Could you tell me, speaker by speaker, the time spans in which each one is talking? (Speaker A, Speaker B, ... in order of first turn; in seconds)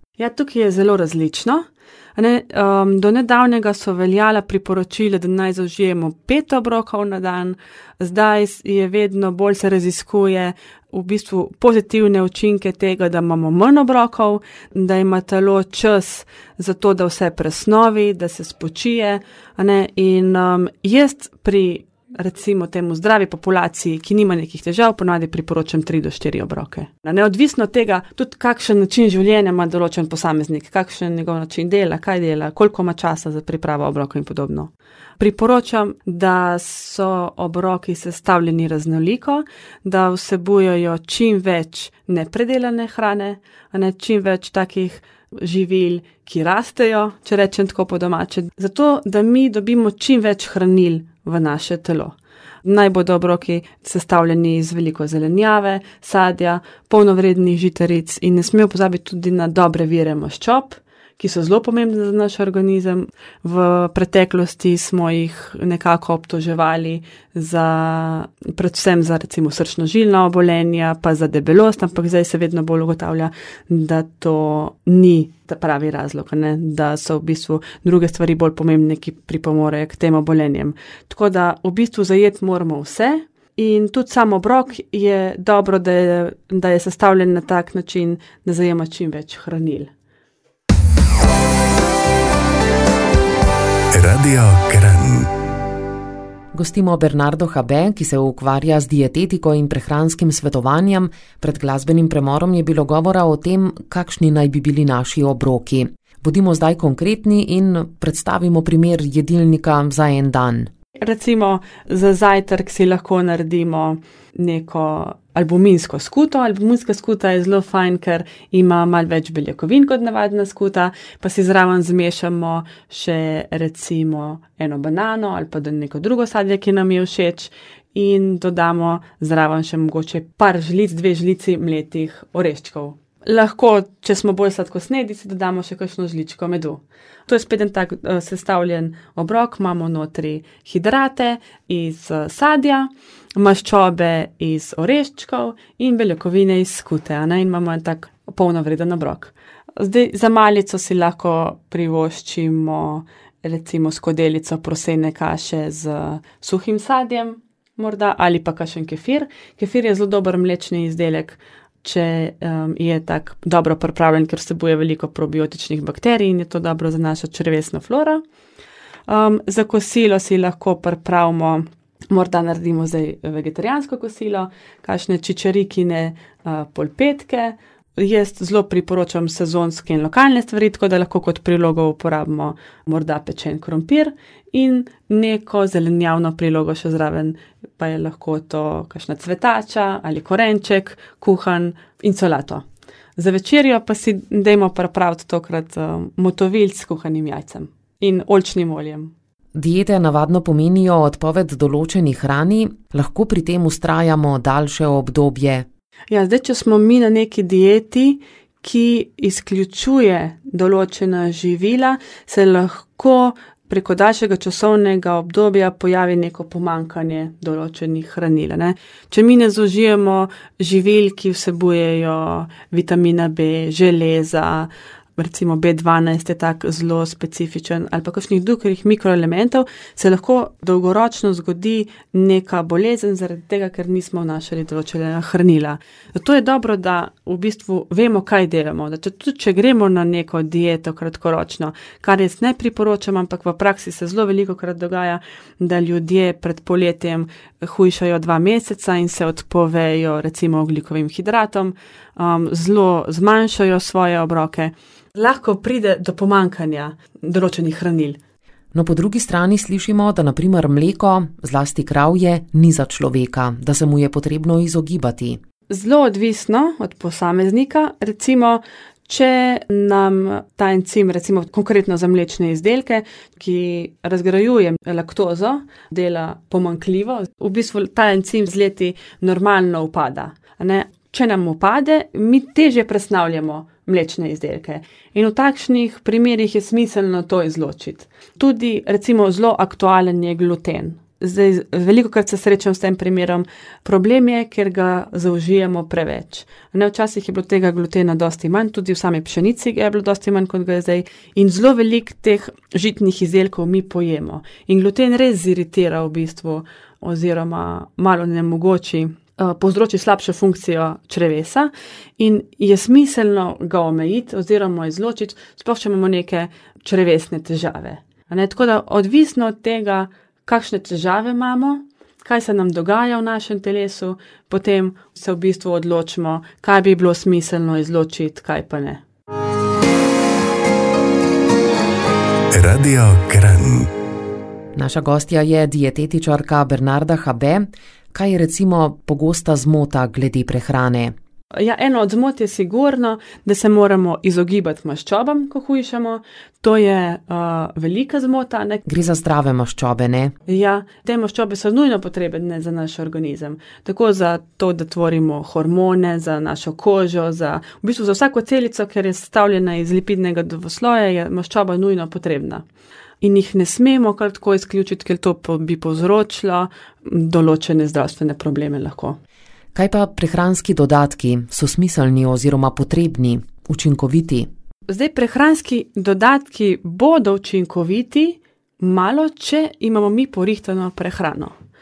Speaker A: 0.2-89.9, 111.0-168.2, 169.1-192.7, 193.2-199.1, 206.1-258.2, 265.7-329.0, 341.6-348.8, 350.5-362.6, 363.2-369.2, 374.9-381.5
Speaker B: 93.9-95.3, 332.5-333.9
Speaker C: 96.5-110.7, 199.6-205.7, 258.7-265.4, 334.8-341.1, 348.9-350.3, 369.8-374.5